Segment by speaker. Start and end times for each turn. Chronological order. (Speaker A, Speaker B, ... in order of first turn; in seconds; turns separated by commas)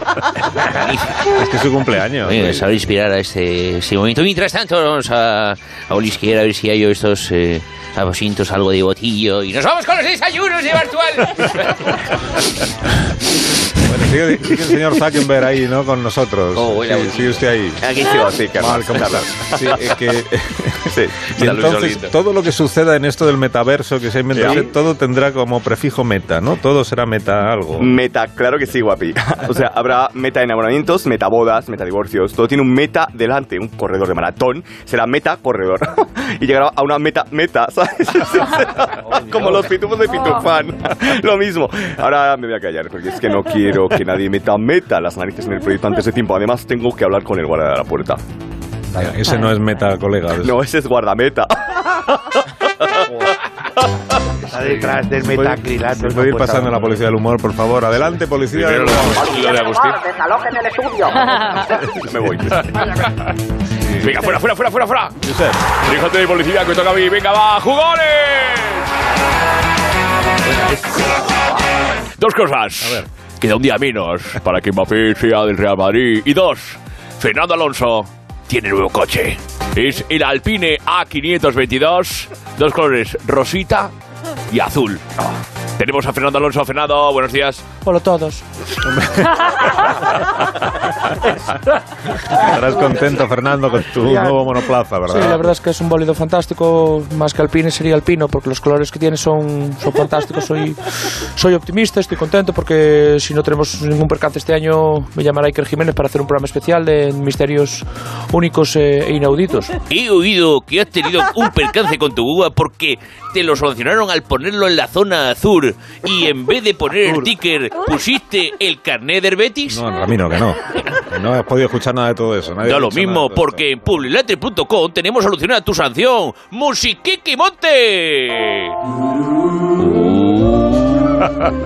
Speaker A: 0.6-1.2, Speaker B: 1.3-2.7, Speaker A: 2.2-11.1, Speaker B: 13.8-17.8, Speaker A: 16.6-17.3, Speaker C: 17.8-19.7, Speaker B: 18.5-27.9, Speaker C: 20.9-21.2, Speaker D: 21.4-22.1, Speaker C: 27.8-48.2, Speaker B: 48.9-50.6, Speaker C: 50.4-51.8, Speaker E: 54.5-56.9, Speaker B: 55.1-59.3, Speaker D: 58.5-60.0, Speaker C: 62.0-62.7, Speaker D: 64.0-65.1, Speaker B: 65.2-65.6, Speaker D: 65.8-68.8, Speaker D: 72.2-83.9, Speaker B: 72.8-73.1, Speaker D: 84.5-85.0, Speaker D: 85.8-87.8, Speaker F: 87.8-88.4, Speaker B: 88.8-89.3, Speaker B: 92.3-95.5, Speaker F: 95.1-109.7, Speaker A: 109.9-119.8, Speaker B: 119.7-123.7, Speaker A: 122.6-128.2, Speaker A: 129.8-131.1